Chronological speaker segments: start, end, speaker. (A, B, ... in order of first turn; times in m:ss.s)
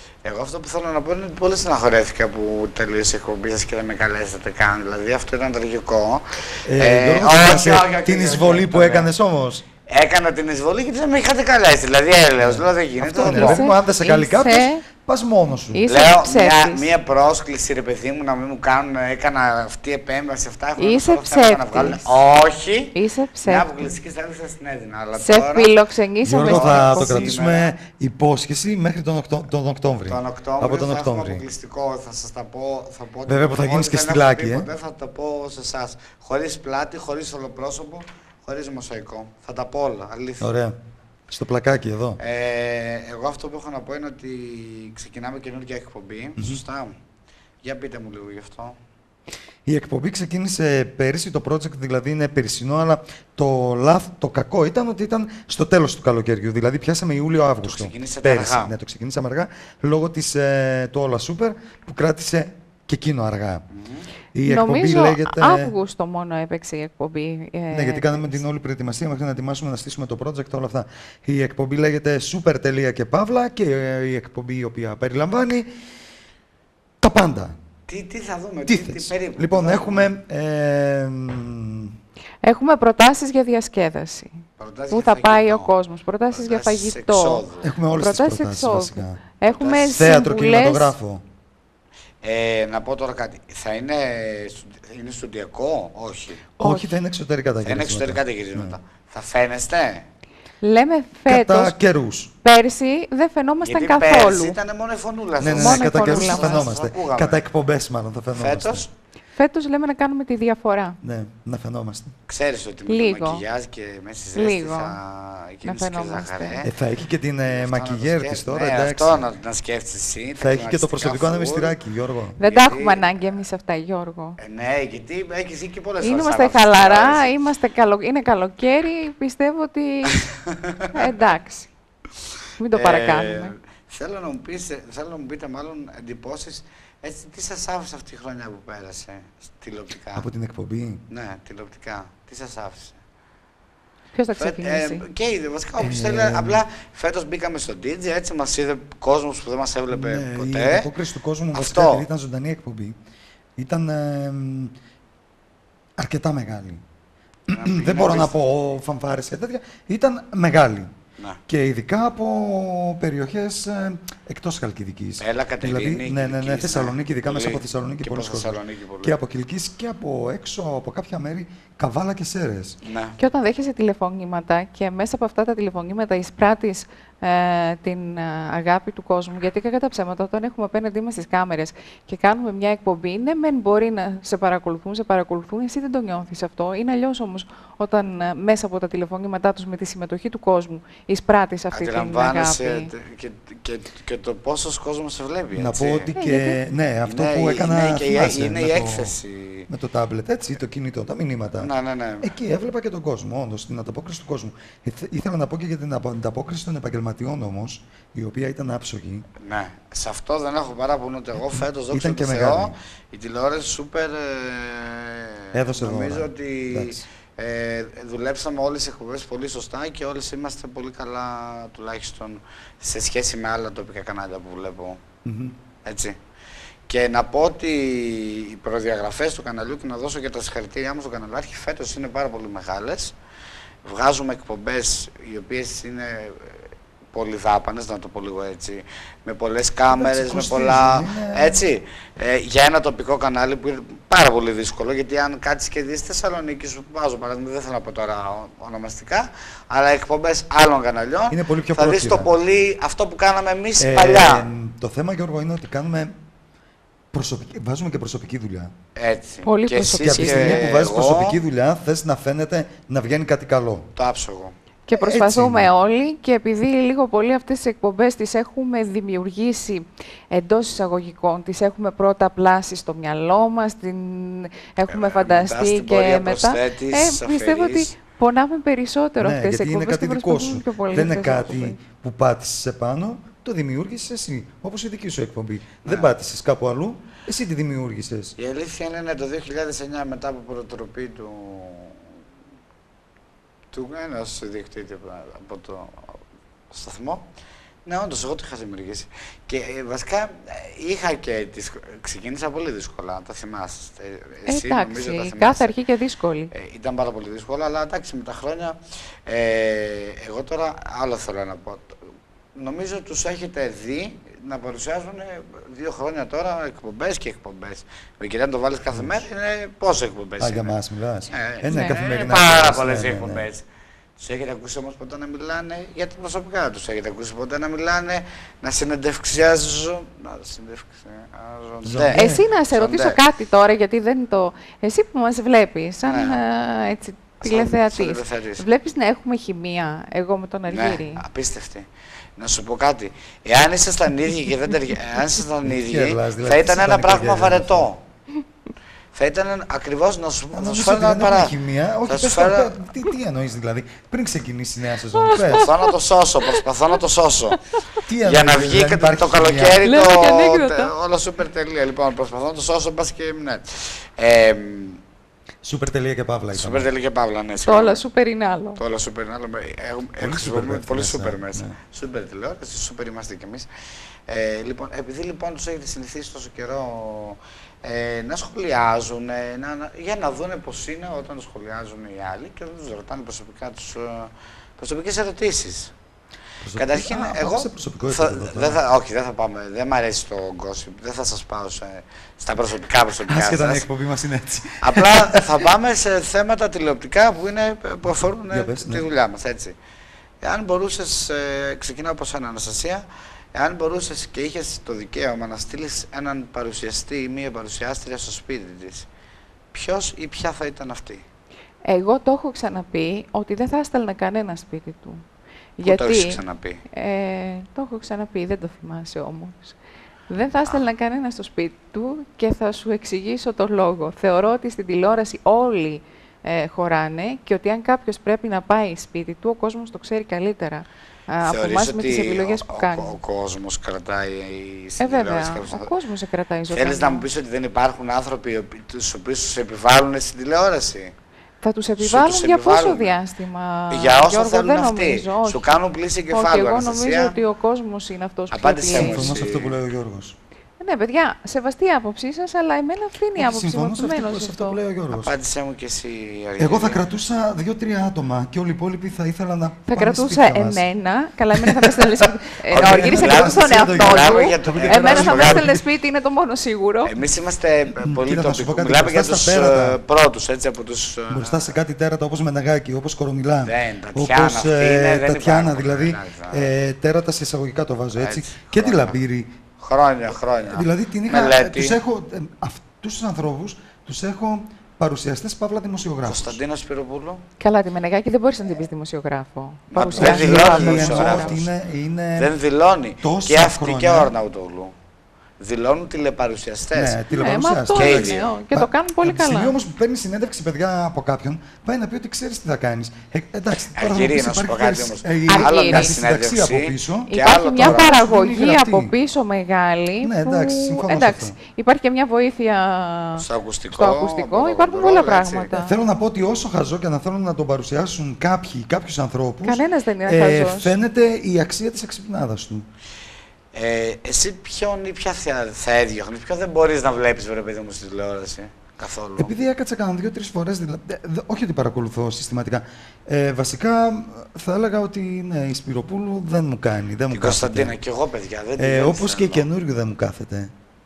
0:00.2-0:09.1 A
0:06.6-0:09.6 B
0:09.9-0:13.6 A
0:12.4-0:15.9 B
0:13.2-0:14.8 C
0:15.7-0:16.8 C
0:15.9-0:25.7 A
0:20.8-0:22.0 C
0:22.9-0:23.7 C
0:25.2-0:27.3 C
0:26.2-0:31.4 B
0:26.3-0:27.7 A
0:30.1-0:40.5 A
0:33.3-0:34.7 B
0:40.4-0:40.8 B
0:41.3-0:42.2 B
0:42.2-0:46.9 A
0:46.4-0:46.6 B
0:47.6-0:48.8 A
0:49.6-1:03.6 B
0:57.6-0:58.7 A
1:03.7-1:04.1 A
1:04.3-1:05.7 B
1:04.4-1:08.4 C
1:07.7-1:15.7 B
1:17.0-1:17.6 B
1:17.9-1:20.1 A
1:18.7-1:22.0 B
1:22.4-1:27.4 C
1:24.6-1:25.7 A
1:26.3-1:27.6 A
1:27.6-1:29.2 B
1:27.9-1:30.9 C
1:29.5-1:29.9 A
1:29.9-1:31.2 B
1:32.2-1:36.5 A
1:36.6-1:38.8 B
1:36.6-1:36.9 C
1:37.6-1:40.0 A
1:40.6-1:41.7 C
1:41.3-1:42.3 B
1:42.4-1:44.6 C
1:43.6-1:47.4 A
1:45.4-1:48.8 B
1:45.6-1:46.6 C
1:48.3-1:48.9 A
1:49.3-1:51.0 C
1:51.0-1:52.2 B
1:52.3-1:56.7 A
1:52.9-1:53.4 C
1:54.3-1:54.9 C
1:55.6-1:56.7 C
1:56.6-1:59.2 B
1:57.5-2:01.8 A
2:00.4-2:02.4 B
2:02.4-2:04.4 C
2:02.4-2:03.1 A
2:04.4-2:07.2 A
2:06.0-2:10.2 C
2:10.3-2:10.9 A
2:10.9-2:11.7 C
2:12.6-2:13.5 C
2:12.7-2:20.2 A
2:20.1-2:21.0 B
2:21.1-2:23.0 A
2:24.1-2:25.0 C
2:24.4-2:30.9 A
2:25.8-2:26.6 B
2:29.9-2:33.0 B
2:31.5-2:32.0 A
2:33.6-2:34.7 B
2:36.0-2:36.8 B
2:37.5-2:40.9 B
2:37.5-2:38.3 A
2:41.5-2:52.8 B
2:45.2-2:49.2 A
2:52.8-2:53.2 A
2:53.2-3:12.9 C
3:11.7-3:16.1 A
3:15.6-3:19.2 B
3:16.1-3:16.6 C
3:17.0-3:19.7 A
3:19.7-3:21.7 B
3:21.6-3:22.3 A
3:22.2-3:29.2 B
3:29.4-3:45.0 A
3:31.5-3:32.7 B
3:35.5-3:37.0 B
3:45.2-3:45.6 B
3:45.8-3:46.2 A
3:46.9-3:53.1 A
3:53.8-4:14.5 A
3:59.9-4:01.6 B
4:11.3-4:12.3 B
4:13.8-4:16.1 B
4:17.1-4:18.7 B
4:19.0-4:21.4 A
4:19.4-4:20.6 C
4:20.0-4:23.9 B
4:24.0-4:24.5 A
4:24.8-4:41.8 C
4:24.9-4:25.7 B
4:34.9-4:37.9 A
4:39.2-4:48.3 B
4:45.8-4:46.1 A
4:48.4-4:52.0 A
4:53.7-4:56.1 A
4:56.7-4:57.2 A
4:57.8-5:05.7 A
5:04.5-5:06.5 C
5:06.5-5:08.8 A
5:09.3-5:11.9 A
5:12.6-5:20.7 A
5:18.9-5:19.2 B
5:20.4-5:23.4 B
5:21.3-5:23.6 A
5:21.7-5:22.0 C
5:24.2-5:33.2 A
5:31.8-5:32.4 B
5:32.1-5:41.2 C
5:36.0-5:36.4 A
5:37.4-5:38.6 A
5:40.7-5:41.9 A
5:42.4-5:48.0 A
5:45.6-5:47.9 B
5:49.1-5:51.5 A
5:50.5-5:55.7 B
5:52.0-5:52.7 A
5:55.1-5:55.9 C
5:55.3-5:57.6 A
5:58.0-5:59.9 B
5:58.2-6:05.0 A
5:59.8-6:00.9 C
6:05.6-6:06.9 B
6:06.5-6:08.0 A
6:07.6-6:08.8 C
6:08.8-6:13.7 A
6:10.2-6:11.7 B
6:14.3-6:25.9 A
6:26.6-6:28.8 B
6:26.8-6:33.8 A
6:33.3-6:35.4 B
6:34.8-6:39.7 A
6:38.5-6:39.0 B
6:40.4-6:49.1 A
6:49.7-6:51.2 A
6:51.8-6:55.2 C
6:55.8-6:56.4 C
6:55.8-6:56.8 A
6:56.9-6:59.7 C
7:00.3-7:13.1 C
7:11.4-7:15.9 A
7:15.0-7:17.2 C
7:16.7-7:21.1 A
7:21.6-7:25.7 C
7:22.0-7:23.2 A
7:23.9-7:27.4 A
7:26.3-7:29.4 C
7:28.5-7:29.8 A
7:28.9-7:30.4 B
7:30.8-7:34.8 C
7:33.4-7:35.3 B
7:35.1-7:37.0 A
7:36.6-7:40.8 B
7:39.9-7:47.1 C
7:41.5-7:42.1 B
7:42.7-7:45.6 A
7:42.7-7:45.8 B
7:47.0-7:51.7 A
7:48.0-7:50.0 B
7:51.3-7:59.5 B
7:53.6-7:56.7 A
7:58.1-7:59.2 A
7:59.8-8:02.0 A
8:00.7-8:06.6 B
8:06.3-8:07.4 A
8:07.6-8:11.6 C
8:09.9-8:11.6 A
8:10.1-8:12.5 B
8:12.4-8:14.9 A
8:13.2-8:14.3 B
8:15.6-8:17.2 A
8:16.9-8:29.1 B
8:17.3-8:19.8 C
8:18.0-8:18.5 A
8:23.9-8:28.2 A
8:25.5-8:26.2 C
8:27.3-8:36.0 C
8:30.2-8:31.6 B
8:33.4-8:35.7 A
8:35.7-8:42.9 B
8:39.6-8:40.9 C
8:43.7-8:49.5 A
8:49.4-8:57.9 B
8:57.3-8:59.6 A
8:58.8-9:00.7 B